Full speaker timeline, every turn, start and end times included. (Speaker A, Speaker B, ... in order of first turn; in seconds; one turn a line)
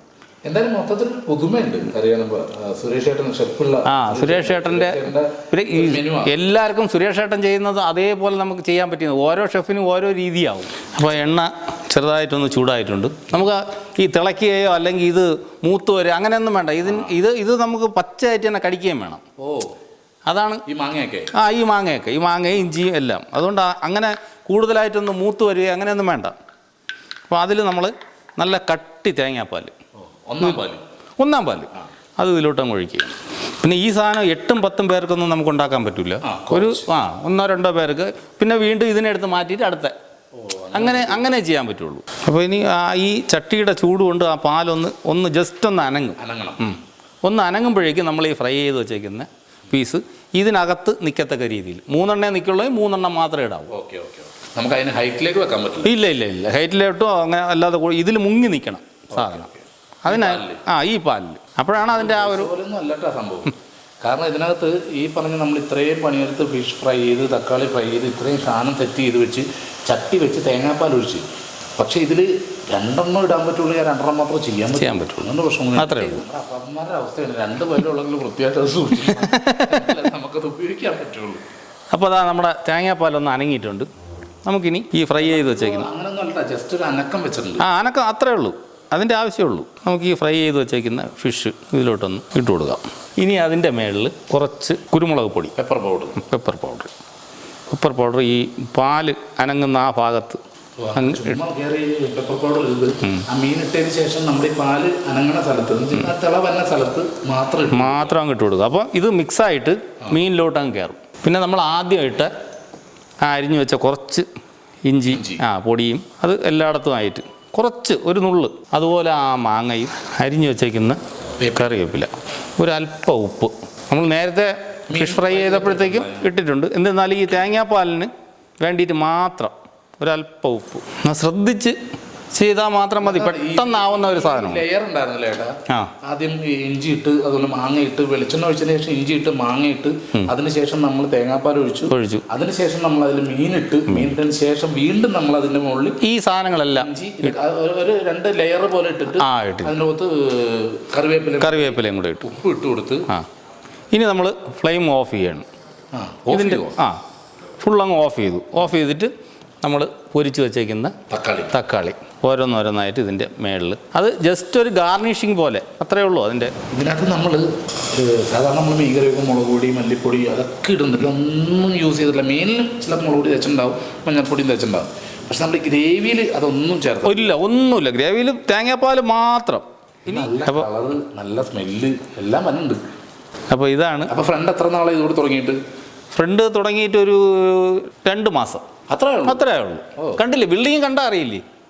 Speaker A: 0.4-6.3
Speaker B: 3.9-19.2
Speaker A: 16.8-17.1
Speaker A: 19.4-19.7
Speaker B: 20.3-20.6
Speaker A: 20.6-21.3
Speaker B: 21.3-26.3
Speaker B: 27.3-29.7
Speaker A: 30.2-30.8
Speaker B: 31.2-39.9
Speaker A: 36.2-36.9
Speaker A: 40.3-41.3
Speaker B: 40.7-53.7
Speaker A: 46.2-46.6
Speaker A: 53.7-55.9
Speaker B: 55.8-59.5
Speaker A: 59.1-60.6
Speaker B: 60.0-62.5
Speaker A: 61.8-71.2
Speaker A: 71.8-81.4
Speaker B: 74.7-76.2
Speaker B: 79.1-79.9
Speaker B: 81.9-83.9
Speaker B: 84.5-85.9
Speaker A: 85.2-87.6
Speaker B: 87.6-95.5
Speaker A: 95.5-96.2
Speaker B: 96.2-96.9
Speaker B: 97.7-100.4
Speaker A: 100.8-108.1
Speaker B: 101.0-101.4
Speaker B: 107.7-112.3
Speaker B: 113.2-114.2
Speaker B: 114.8-121.0
Speaker A: 115.1-115.4
Speaker A: 121.4-121.8
Speaker B: 121.5-131.8
Speaker A: 124.9-126.3
Speaker B: 132.3-134.6
Speaker A: 133.0-146.0
Speaker B: 141.9-142.2
Speaker B: 146.0-147.3
Speaker A: 146.8-153.1
Speaker B: 149.1-149.7
Speaker B: 151.4-152.3
Speaker B: 153.9-155.4
Speaker A: 155.9-156.8
Speaker B: 156.3-157.0
Speaker B: 157.6-159.1
Speaker B: 159.6-160.9
Speaker A: 161.1-161.5
Speaker B: 161.5-166.5
Speaker A: 166.7-177.3
Speaker B: 177.0-180.7
Speaker A: 180.1-182.8
Speaker B: 183.5-184.1
Speaker A: 184.1-185.6
Speaker B: 186.1-188.6
Speaker A: 188.9-189.4
Speaker B: 189.2-191.4